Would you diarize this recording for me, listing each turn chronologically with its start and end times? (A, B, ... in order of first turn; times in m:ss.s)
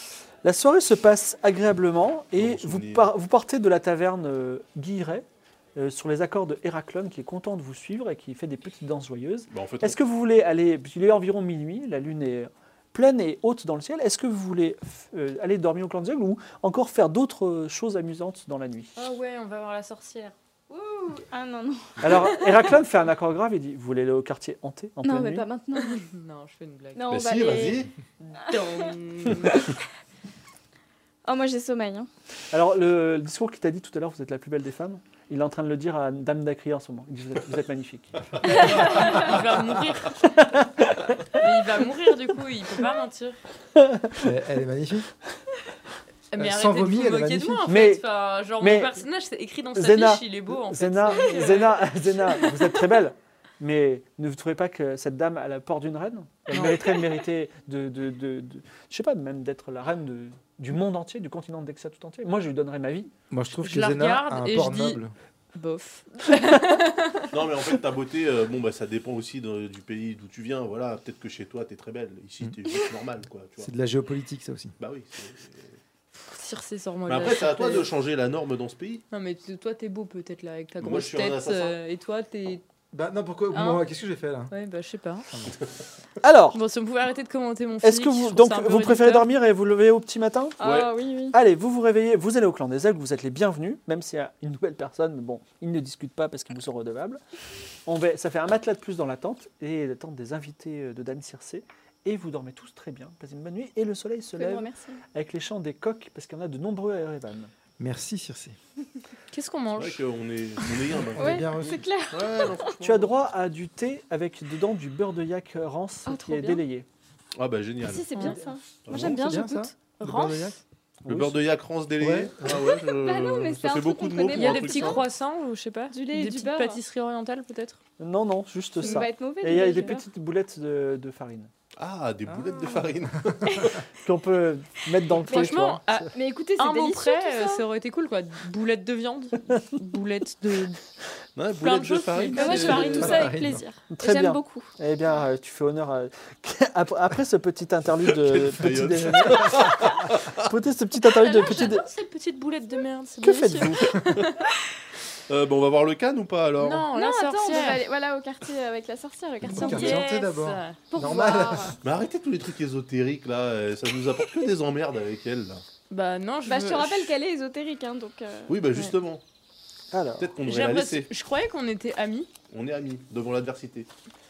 0:00.4-0:19.0 A
0:02.4-0:03.1 B
0:09.5-0:10.0 B
0:19.0-0:20.3 C
0:20.7-0:22.2 D
0:22.0-0:25.4 A
0:25.0-0:26.0 D
0:25.8-0:27.1 C
0:27.0-0:27.9 D
0:27.1-0:27.9 B
0:28.4-0:29.7 C
0:28.5-0:28.9 D
0:31.2-0:32.1 D
0:32.5-0:38.8 A
0:38.3-0:39.8 B
0:38.4-0:40.6 C
0:38.8-0:39.1 D
0:40.2-0:41.4 A
0:41.3-0:43.4 C
0:43.7-0:44.2 A
0:44.2-0:45.1 E
0:46.3-0:52.8 C
0:46.4-0:47.7 E
0:47.7-0:48.0 A
0:48.6-0:49.0 A
0:49.7-1:03.1 A
1:03.3-1:05.1 E
1:03.5-1:05.0 C
1:05.5-1:07.3 C
1:07.3-1:13.7 B
1:13.6-1:14.7 E
1:14.8-1:15.8 B
1:16.2-1:17.9 C
1:17.0-1:19.0 B
1:19.1-1:22.6 C
1:20.8-1:21.8 B
1:22.9-1:24.5 E
1:23.5-1:23.8 C
1:24.5-1:25.3 C
1:26.2-1:26.6 A
1:26.5-1:29.3 C
1:27.8-1:30.6 A
1:30.6-1:31.4 D
1:30.6-1:30.9 B
1:31.3-1:37.2 A
1:37.8-1:47.5 A
1:44.4-1:45.0 D
1:47.8-1:48.6 E
1:49.3-1:50.1 C
1:49.7-1:53.1 B
1:51.1-1:51.8 E
1:51.2-1:52.8 D
1:52.8-1:56.9 A
1:56.0-1:56.6 D
1:57.4-1:58.2 B
1:57.8-1:59.8 D
1:58.1-1:58.4 C
1:58.8-1:59.2 B
1:58.9-2:00.6 E
2:00.0-2:00.4 C
2:01.0-2:01.4 A
2:01.1-2:05.0 B
2:02.0-2:02.7 E
2:02.7-2:05.1 D
2:04.3-2:07.8 C
2:05.9-2:06.8 D
2:08.0-2:11.5 A
2:08.8-2:10.0 D
2:11.8-2:13.8 B
2:12.3-2:12.8 E
2:14.0-2:16.1 A
2:15.2-2:20.8 C
2:16.1-2:17.6 D
2:21.4-2:23.2 B
2:21.6-2:23.4 C
2:22.2-2:24.7 D
2:23.0-2:23.6 E
2:23.9-2:31.9 A
2:28.1-2:30.5 B
2:31.1-2:34.5 C
2:33.2-2:34.0 A
2:35.3-2:36.9 B
2:36.6-2:37.8 C
2:36.9-2:40.0 D
2:39.5-2:41.7 E
2:39.5-2:40.8 C
2:40.9-2:41.8 D
2:41.8-2:45.6 B
2:45.9-2:47.1 C
2:46.4-2:48.7 D
2:48.5-2:49.2 B
2:49.9-2:50.3 A
2:50.2-2:51.1 B
2:50.4-2:52.3 C
2:52.5-2:53.9 B